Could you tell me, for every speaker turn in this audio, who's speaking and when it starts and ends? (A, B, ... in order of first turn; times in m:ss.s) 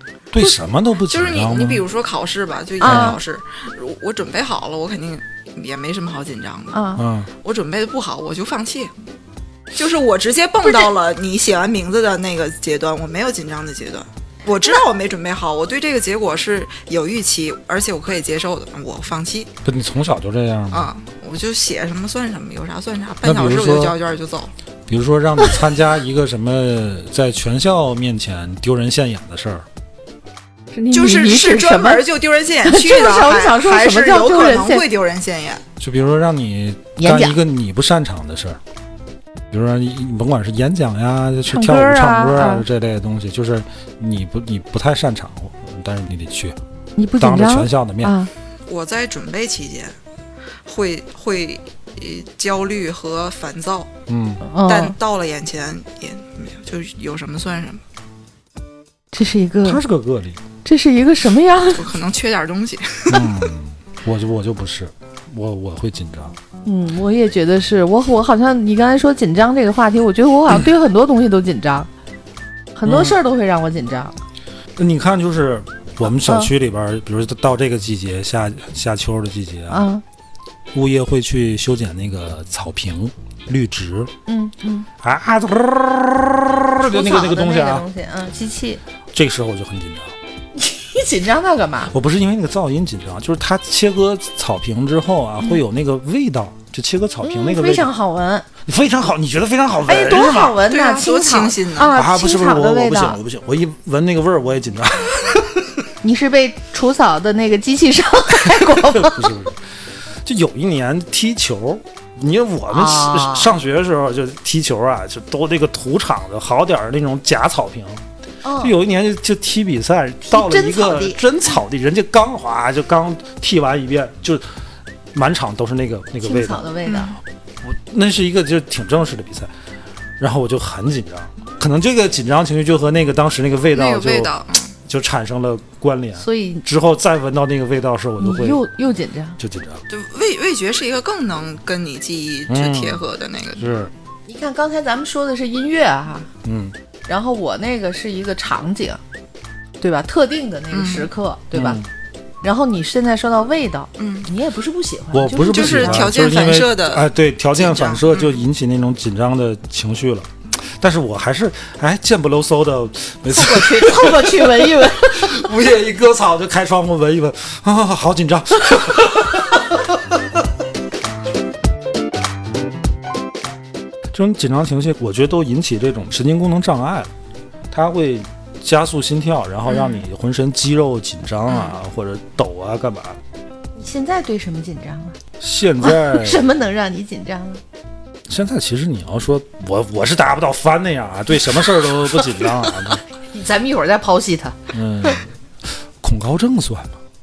0:00.3-0:01.8 A
0:01.1-0:06.8 B
0:02.8-0:03.2 C
0:02.8-0:03.2 A
0:06.7-0:07.0 C
0:07.0-0:07.3 A
0:07.4-0:08.9 B
0:09.7-0:19.5 B
0:19.6-0:20.9 A
0:20.7-0:24.5 B
0:23.2-0:24.0 A
0:24.9-0:29.6 A
0:30.7-0:32.0 C
0:30.9-0:35.6 B
0:32.6-0:34.8 C
0:35.8-0:38.6 A
0:37.0-0:37.4 C
0:39.5-0:46.6 A
0:41.5-0:42.6 C
0:47.0-0:48.3 C
0:47.2-0:48.1 A
0:48.7-0:49.9 B
0:50.6-0:53.9 B
0:54.1-0:54.4 A
0:54.4-0:55.0 C
0:54.6-0:57.8 B
0:59.1-0:59.8 C
0:59.6-1:00.4 A
1:00.6-1:01.9 C
1:01.7-1:03.3 B
1:03.1-1:06.4 A
1:06.6-1:11.9 C
1:12.8-1:14.1 C
1:12.8-1:13.2 A
1:14.8-1:19.9 A
1:16.2-1:16.5 C
1:19.7-1:20.0 C
1:20.7-1:24.1 A
1:24.3-1:24.9 C
1:25.0-1:27.8 A
1:26.8-1:28.8 C
1:29.1-1:30.1 A
1:30.6-1:31.9 C
1:31.9-1:37.9 A
1:37.2-1:38.5 C
1:38.6-1:40.6 A
1:39.8-1:43.2 C
1:40.7-1:41.9 B
1:41.9-1:45.7 A
1:46.0-1:49.4 C
1:48.5-1:49.6 A
1:50.2-1:58.0 A
1:52.7-1:53.5 C
1:58.4-1:58.7 C
1:58.6-2:04.4 A
2:00.2-2:01.2 C
2:05.1-2:06.6 A
2:06.2-2:07.2 C
2:06.8-2:07.1 B
2:07.6-2:09.5 A
2:10.2-2:14.3 A
2:13.7-2:14.7 B
2:14.8-2:18.6 A
2:16.2-2:16.6 C
2:18.2-2:19.4 C
2:19.4-2:19.8 A
2:19.9-2:23.6 B
2:22.5-2:23.0 A
2:23.6-2:23.9 A
2:24.3-2:26.3 C
2:26.4-2:26.7 A
2:27.1-2:29.0 C
2:29.8-2:31.8 C
2:30.7-2:31.1 B
2:31.5-2:31.9 A
2:32.4-2:36.1 C
2:34.0-2:34.3 B
2:35.1-2:50.4 A
2:35.5-2:38.4 B
2:43.3-2:45.4 C
2:54.1-2:57.1 A
2:57.7-3:03.2 A
2:59.7-3:00.0 B
3:01.5-3:01.8 B
3:03.8-3:05.2 C
3:05.4-3:06.4 A
3:05.8-3:07.6 C
3:08.3-3:13.0 A
3:13.3-3:14.6 C
3:14.7-3:17.0 A